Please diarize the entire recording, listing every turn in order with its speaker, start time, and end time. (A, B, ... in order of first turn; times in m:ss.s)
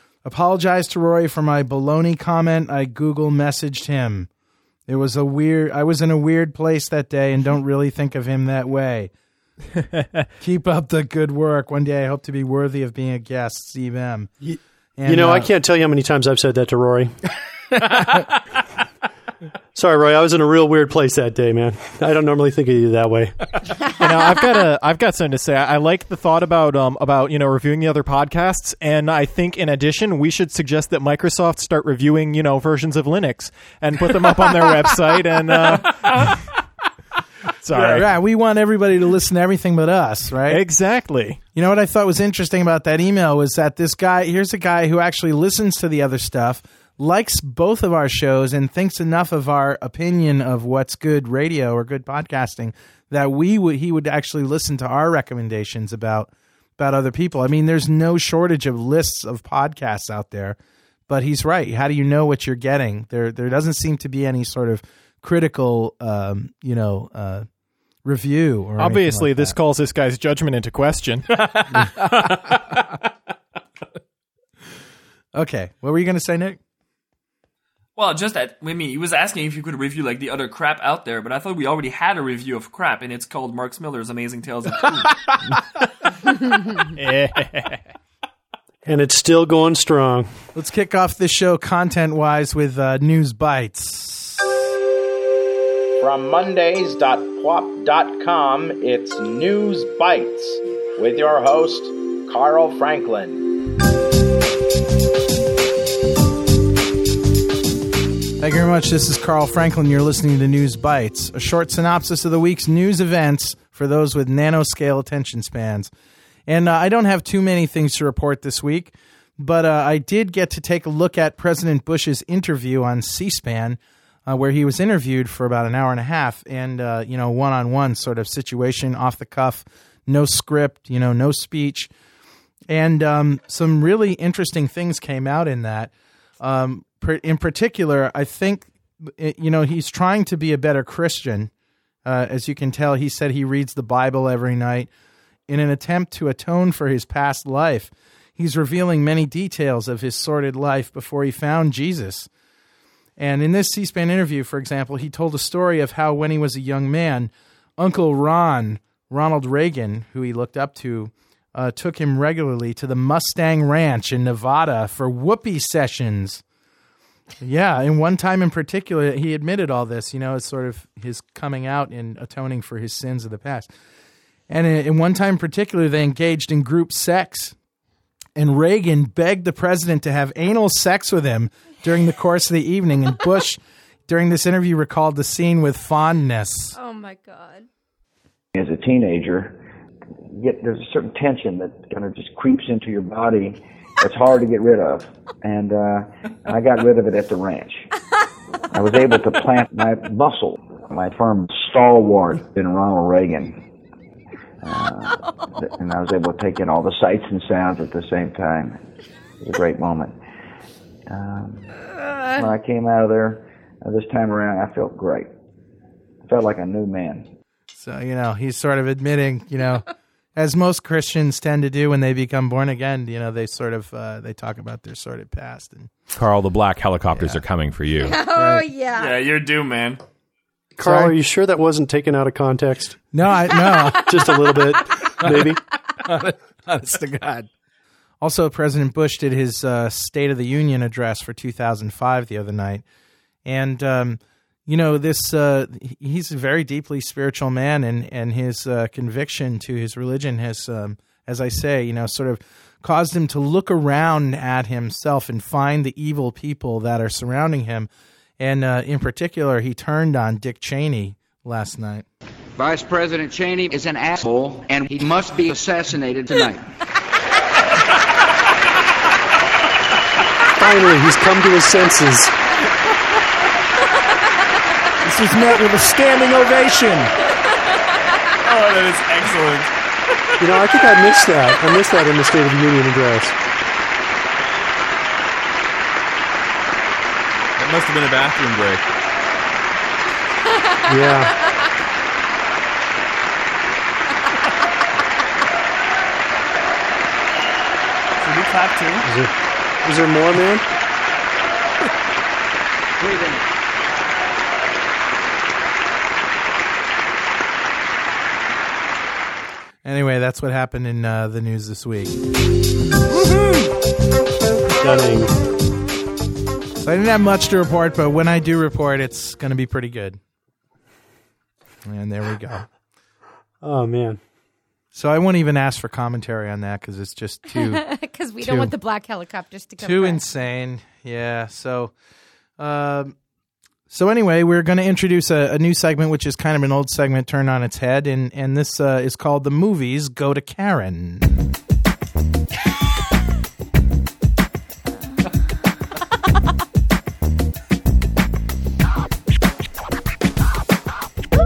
0:00.2-0:04.3 A
0:04.9-0:09.1 A
0:10.4-0:14.3 A
0:14.4-0:17.2 B
0:15.0-0:15.5 A
0:19.8-0:23.5 B
0:23.9-0:36.4 C
0:35.5-0:35.8 A
0:37.6-0:38.1 C
0:37.8-0:40.6 A
0:40.5-0:41.4 C
0:41.5-1:00.6 A
1:01.1-1:07.5 A
1:08.0-1:09.5 A
1:08.8-1:11.9 C
1:15.3-1:16.6 A
1:18.0-1:25.2 D
1:26.4-1:27.8 C
1:28.9-1:30.3 B
1:30.5-1:34.5 A
1:36.0-1:43.5 E
1:48.4-1:55.9 A
1:56.5-2:11.9 A
2:12.7-2:21.5 A
2:22.0-2:24.9 A
2:25.5-2:32.3 A
2:33.2-2:46.4 A
2:47.4-2:53.7 A
2:54.5-2:57.5 A
2:58.4-3:06.8 A
3:06.8-3:07.7 F
3:08.5-3:09.6 G
3:10.3-3:17.9 G
3:18.7-3:23.5 G
3:24.6-3:28.8 G
3:29.4-3:30.2 G
3:31.1-3:31.7 G
3:32.3-3:35.3 G
3:36.3-3:37.3 G
3:37.7-3:39.8 A
3:40.4-3:45.9 A
3:46.1-3:48.2 H
3:47.2-3:47.4 A
3:48.0-3:49.1 F
3:48.3-3:48.7 A
3:49.0-3:50.0 D
3:50.8-3:53.0 B
3:50.8-3:51.2 A
3:53.1-3:54.3 A
3:53.7-3:54.0 F
3:54.0-3:55.6 B
3:55.2-3:55.5 A
3:56.0-3:57.5 A
3:58.2-4:02.8 A
4:03.4-4:22.0 A
4:22.6-4:26.7 I
4:30.5-4:32.3 B
4:35.0-4:37.1 A
4:38.4-4:39.7 D
4:40.4-4:43.3 B
4:47.6-4:48.8 H
4:50.6-4:50.8 F
4:50.9-4:51.4 B
4:58.2-4:59.0 D
4:59.0-4:59.3 B
4:59.8-5:00.7 B
5:03.0-5:03.4 I
5:09.8-5:12.2 A
5:14.8-5:15.3 B
5:16.8-5:20.2 A
5:21.8-5:22.6 A
5:23.6-5:24.2 B
5:24.9-5:27.8 A
5:27.5-5:30.2 F
5:28.4-5:28.7 A
5:29.8-5:31.9 A
5:32.6-5:33.2 A
5:33.9-5:41.4 A